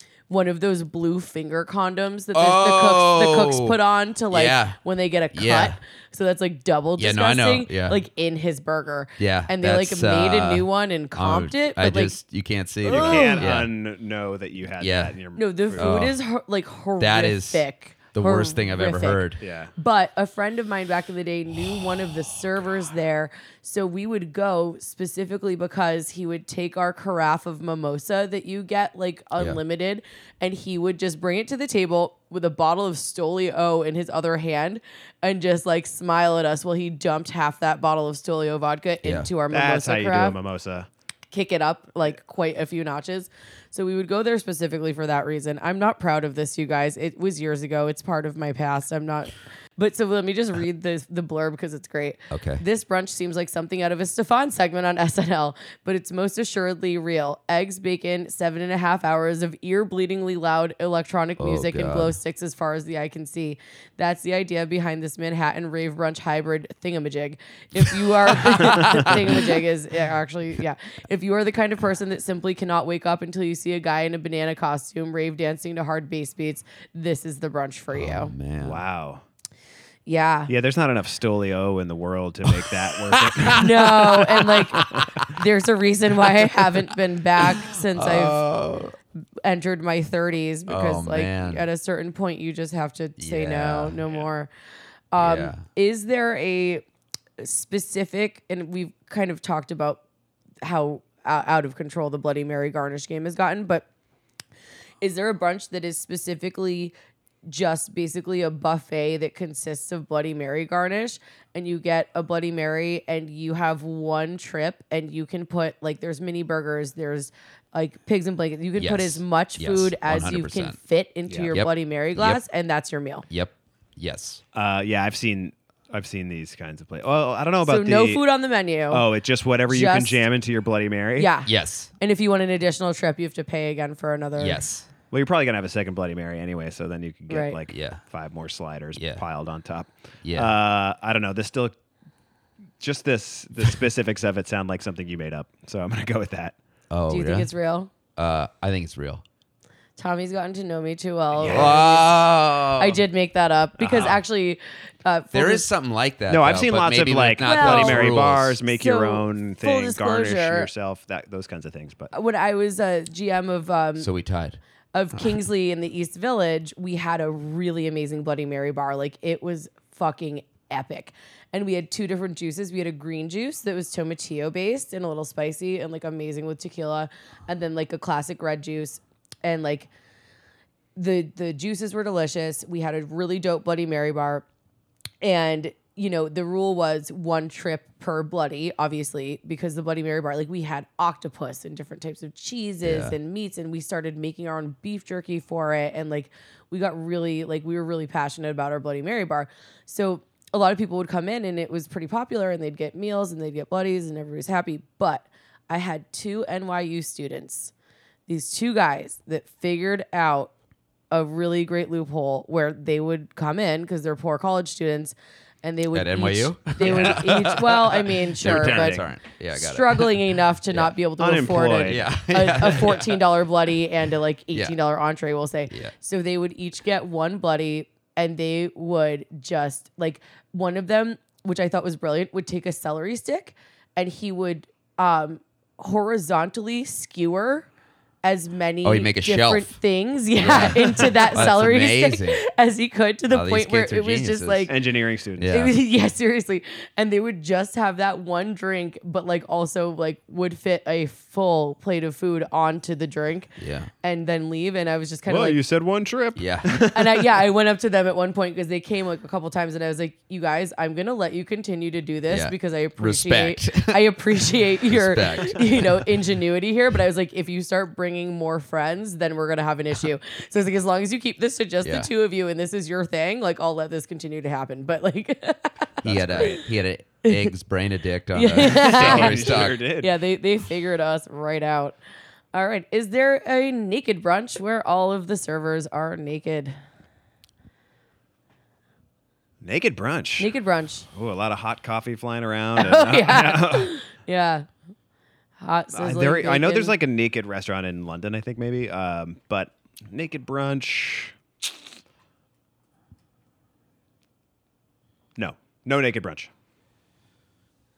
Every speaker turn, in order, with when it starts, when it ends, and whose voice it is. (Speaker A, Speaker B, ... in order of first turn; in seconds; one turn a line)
Speaker A: 0.3-12.2
Speaker B: 2.4-3.8
Speaker B: 4.3-4.8
Speaker B: 5.3-5.8
Speaker B: 7.0-8.0
Speaker B: 9.2-13.7
Speaker A: 12.9-13.5
Speaker C: 12.9-16.1
Speaker B: 14.8-15.2
Speaker A: 15.4-19.2
Speaker B: 15.8-16.2
Speaker B: 17.0-19.4
Speaker C: 19.4-19.7
Speaker A: 19.8-40.4
Speaker B: 39.0-39.3
Speaker C: 39.5-40.9
Speaker A: 41.3-78.3
Speaker B: 52.3-52.6
Speaker B: 61.4-62.2
Speaker B: 68.4-69.4
Speaker B: 77.9-78.8
Speaker C: 78.6-79.2
Speaker A: 80.1-80.5
Speaker C: 80.5-84.0
Speaker B: 82.7-84.6
Speaker A: 83.5-88.5
Speaker C: 84.8-85.3
Speaker B: 87.5-89.0
Speaker A: 89.4-94.5
Speaker B: 90.7-91.6
Speaker B: 93.2-94.0
Speaker A: 95.1-96.8
Speaker B: 95.2-95.6
Speaker A: 97.4-100.0
Speaker A: 100.6-103.9
Speaker A: 105.0-106.9
Speaker A: 107.5-123.3
Speaker B: 118.8-120.8
Speaker C: 121.3-121.5
Speaker B: 121.5-122.4
Speaker B: 123.3-124.4
Speaker C: 124.5-128.2
Speaker A: 127.7-129.1
Speaker C: 128.9-131.3
Speaker A: 129.7-130.2
Speaker A: 131.2-134.6
Speaker B: 131.5-131.9
Speaker B: 134.4-134.9
Speaker C: 135.1-141.8
Speaker A: 137.3-137.6
Speaker B: 137.7-138.0
Speaker B: 139.0-139.2
Speaker B: 140.2-140.5
Speaker C: 142.8-146.6
Speaker B: 146.9-147.5
Speaker A: 147.1-147.9
Speaker B: 148.2-149.2
Speaker A: 150.0-155.7
Speaker C: 151.3-151.8
Speaker B: 151.4-153.0
Speaker C: 153.8-154.2
Speaker B: 155.3-158.6
Speaker C: 156.3-162.1
Speaker A: 157.4-160.7
Speaker A: 162.1-164.1
Speaker B: 164.0-164.6
Speaker A: 164.9-179.9
Speaker A: 181.0-184.4
Speaker A: 185.2-207.7
Speaker B: 192.8-193.2
Speaker A: 208.3-210.5
Speaker A: 211.1-237.7
Speaker B: 215.9-220.9
Speaker C: 216.8-217.3
Speaker C: 218.4-219.1
Speaker C: 221.2-222.0
Speaker B: 221.8-223.2
Speaker A: 238.2-244.8
Speaker B: 238.8-239.8
Speaker B: 240.4-242.4
Speaker B: 243.3-244.8
Speaker C: 244.7-245.6
Speaker B: 245.4-245.7
Speaker A: 245.5-255.6
Speaker B: 253.6-253.9
Speaker C: 255.3-257.4
Speaker B: 256.4-256.9
Speaker A: 256.8-276.6
Speaker B: 262.3-266.1
Speaker B: 271.8-272.1
Speaker C: 276.0-276.6
Speaker B: 276.0-279.8
Speaker A: 277.2-277.5
Speaker A: 278.3-282.0
Speaker C: 278.6-280.1
Speaker A: 282.5-286.7
Speaker C: 289.6-290.5
Speaker A: 290.4-291.1
Speaker C: 291.1-294.0
Speaker A: 292.8-294.7
Speaker A: 295.6-296.9
Speaker C: 295.9-301.4
Speaker C: 305.4-306.5